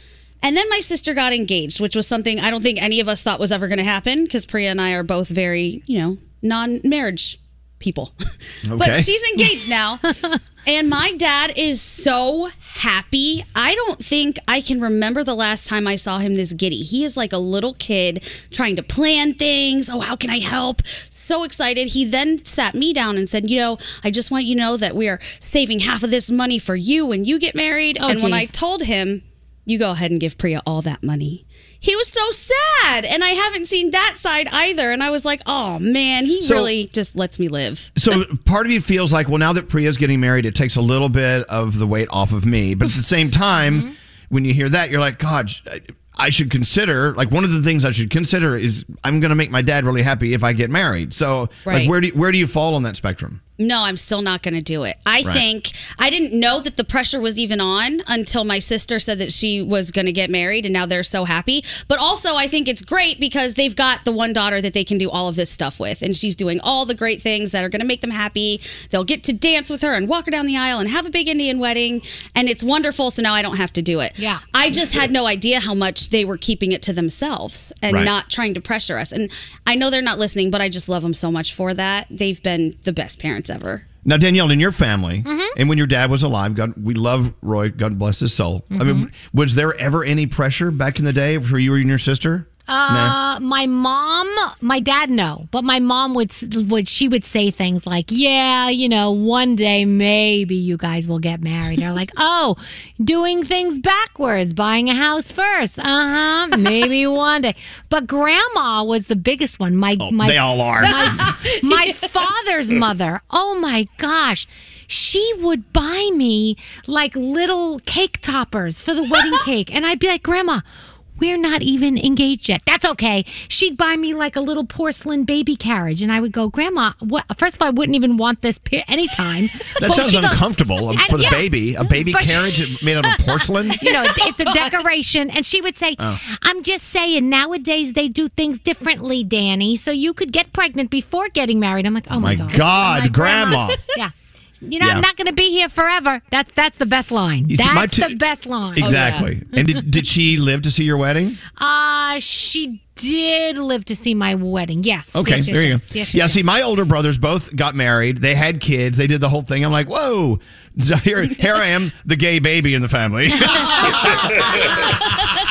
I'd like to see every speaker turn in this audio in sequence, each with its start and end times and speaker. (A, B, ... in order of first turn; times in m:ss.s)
0:00.4-0:08.1 A
0:08.6-0:09.1 B
0:08.8-0:10.0 A
0:10.7-0:37.9 A
0:28.0-0:28.5 C
0:36.4-0:36.7 B
0:38.0-0:53.4 B
0:43.6-0:43.9 C
0:51.6-0:51.9 A
0:53.6-1:23.8 A
1:14.7-1:15.0 B
1:24.0-1:33.2 B
1:25.2-1:25.6 C
1:28.7-1:29.1 C
1:32.7-2:00.7 C
1:50.0-1:51.2 B
2:01.2-2:11.4 C
2:09.8-2:13.8 B
2:12.1-2:12.5 C
2:13.8-2:24.1 C
2:22.2-2:23.8 B
2:24.6-2:29.0 C
2:24.8-2:25.0 B
2:27.5-2:28.2 B
2:28.8-2:31.4 B
2:28.8-2:29.3 A
2:31.6-2:36.5 C
2:35.1-2:45.1 B